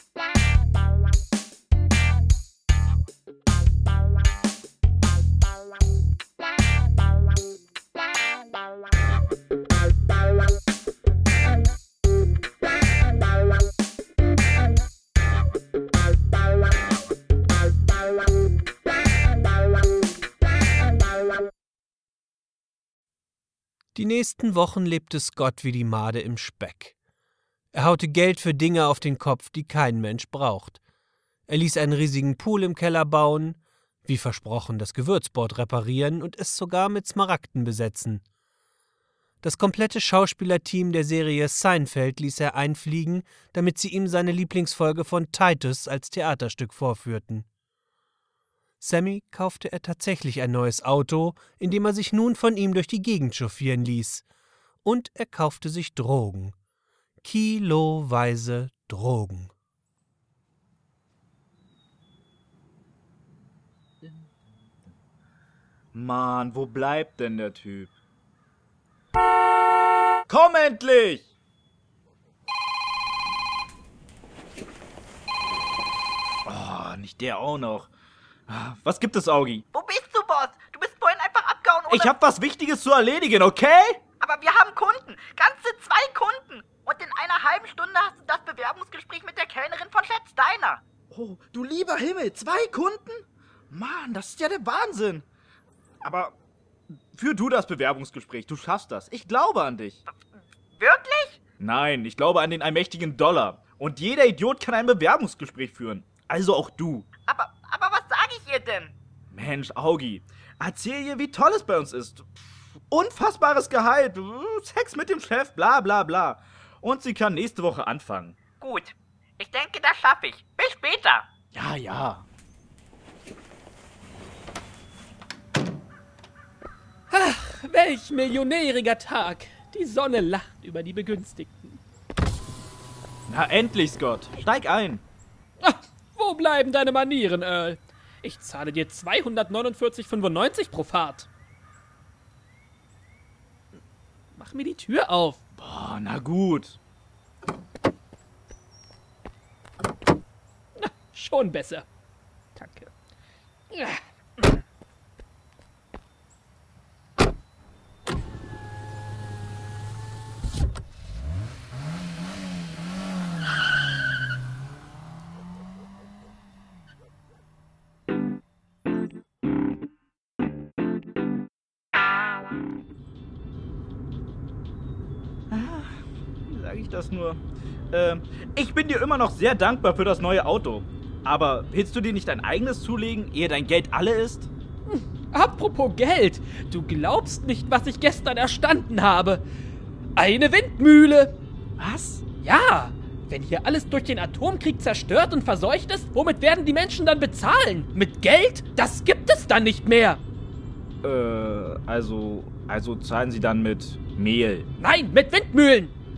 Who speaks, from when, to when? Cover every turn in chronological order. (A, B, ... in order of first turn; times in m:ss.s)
0:24.0-0:26.9 A
0:27.7-0:30.8 A
0:31.5-0:38.2 A
0:39.4-0:47.5 A
0:48.8-0:54.2 A
0:54.8-0:56.6 A
0:57.2-0:59.5 A
1:05.9-1:07.9 B
1:10.3-1:11.3 B
1:16.4-1:17.9 B
1:18.5-1:19.6 B
1:19.7-1:22.1 C
1:21.9-1:24.0 B
1:24.2-1:30.8 C
1:31.1-1:35.3 B
1:36.0-1:36.4 B
1:37.1-1:40.0 B
1:40.8-1:41.4 C
1:41.6-1:47.1 B
1:47.2-1:48.9 C
1:49.3-1:58.4 B
1:58.6-2:01.3 C
2:01.5-2:02.2 B
2:07.1-2:11.8 D
2:13.3-2:15.0 B
2:15.6-2:21.3 D
2:24.4-2:25.4 D
2:25.6-2:26.8 B
2:30.8-2:31.9 D
2:32.6-2:32.9 D
2:33.7-2:34.6 D
2:55.5-2:57.4 B
2:57.9-3:04.5 B
3:04.9-3:09.4 D
3:10.2-3:11.4 D
3:11.8-3:12.2 B
3:12.4-3:20.2 D
3:21.0-3:24.7 B
3:24.8-3:25.9 D